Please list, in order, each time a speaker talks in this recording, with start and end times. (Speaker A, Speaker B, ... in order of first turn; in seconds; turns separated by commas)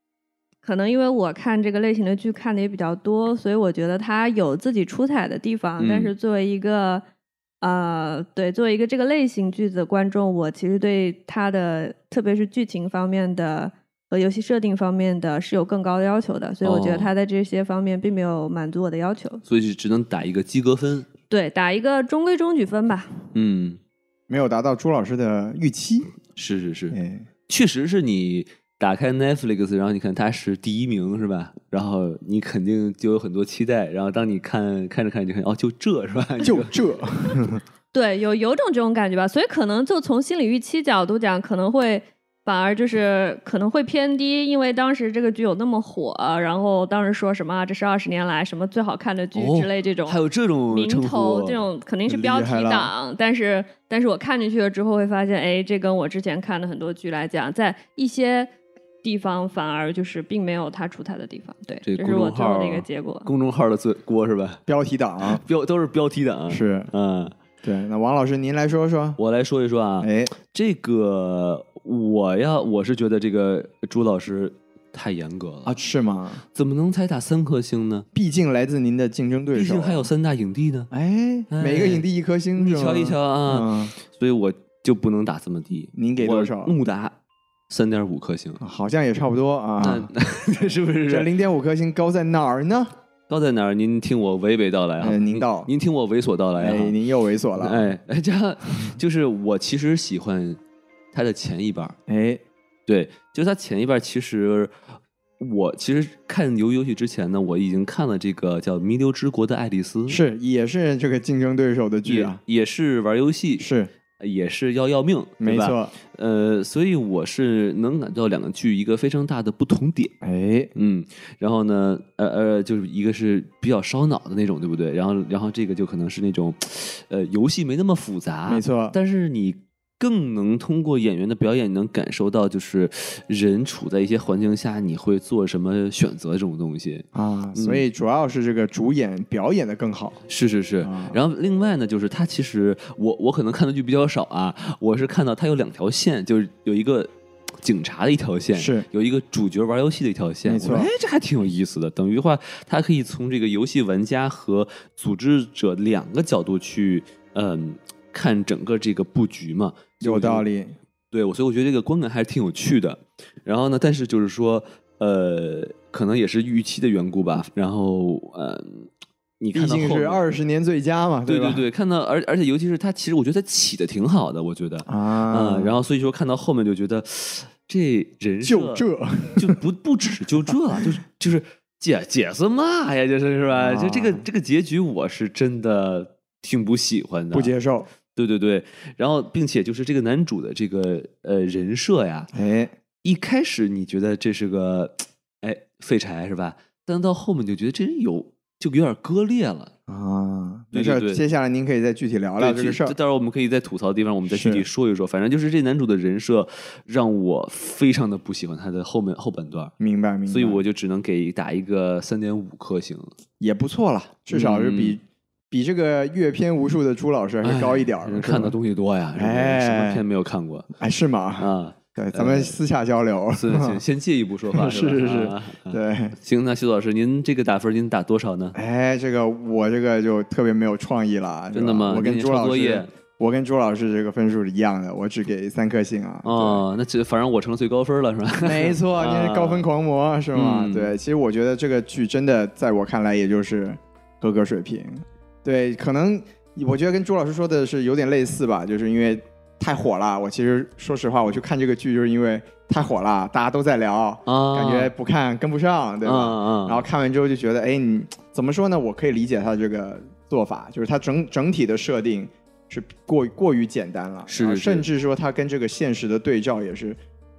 Speaker A: 0.6-7.0, Speaker B: 5.8-6.1, Speaker A: 7.6-19.4, Speaker B: 16.6-17.1, Speaker B: 19.5-21.1, Speaker A: 21.3-23.2, Speaker B: 23.3-23.8, Speaker C: 24.3-26.1, Speaker B: 26.4-27.0, Speaker C: 26.9-27.3, Speaker B: 27.5-37.3, Speaker C: 36.4-37.6, Speaker A: 37.9-50.2, Speaker B: 49.4-51.6, Speaker A: 50.7-58.5, Speaker C: 52.1-52.9, Speaker A: 59.0-63.3, Speaker B: 61.9-64.6, Speaker C: 64.7-65.4, Speaker B: 65.3-67.3, Speaker C: 66.5-66.9, Speaker C: 67.6-69.2, Speaker B: 69.2-75.8, Speaker C: 70.0-70.3, Speaker C: 75.7-76.4, Speaker B: 76.5-78.1, Speaker C: 78.1-80.1, Speaker B: 79.5-80.9, Speaker C: 80.9-83.9, Speaker B: 81.5-87.1, Speaker C: 86.0-86.8, Speaker B: 87.7-88.6, Speaker C: 88.6-90.1, Speaker B: 89.8-91.3, Speaker C: 91.1-92.9, Speaker B: 93.3-97.0, Speaker C: 95.0-95.7, Speaker C: 96.6-97.9, Speaker B: 97.6-100.6, Speaker B: 101.1-102.0, Speaker C: 102.1-102.4, Speaker B: 102.9-104.7, Speaker B: 105.4-110.2, Speaker C: 110.1-112.4, Speaker B: 112.0-113.7, Speaker C: 113.6-113.9, Speaker B: 114.2-120.1, Speaker C: 115.4-116.0, Speaker C: 120.2-120.7, Speaker B: 120.8-137.8, Speaker C: 128.5-129.0, Speaker C: 137.1-140.2, Speaker B: 140.3-147.1, Speaker C: 140.8-141.2, Speaker B: 147.6-160.5, Speaker C: 148.6-148.9, Speaker C: 150.5-150.9, Speaker C: 160.0-160.8, Speaker B: 161.1-168.9, Speaker B: 169.4-170.2, Speaker C: 169.5-171.6, Speaker B: 171.2-187.5, Speaker C: 174.9-175.8, Speaker C: 178.4-179.6, Speaker C: 180.5-180.9, Speaker C: 183.5-184.2, Speaker C: 187.3-187.9, Speaker B: 188.1-192.3, Speaker C: 192.3-192.7, Speaker B: 193.0-199.7, Speaker C: 199.9-202.9, Speaker B: 200.7-201.2, Speaker B: 202.4-209.7, Speaker C: 204.2-204.7, Speaker C: 209.8-210.6, Speaker B: 210.3-213.1, Speaker C: 213.4-218.6, Speaker B: 214.3-215.0, Speaker B: 217.4-220.7, Speaker C: 219.2-220.0, Speaker C: 220.8-223.8, Speaker B: 221.4-222.6, Speaker B: 223.3-228.6, Speaker C: 224.5-226.2, Speaker C: 228.6-236.6, Speaker B: 231.5-232.9, Speaker B: 236.2-239.6, Speaker C: 238.4-267.0, Speaker B: 240.3-240.9, Speaker B: 254.3-254.9, Speaker B: 256.1-256.9, Speaker B: 264.3-264.9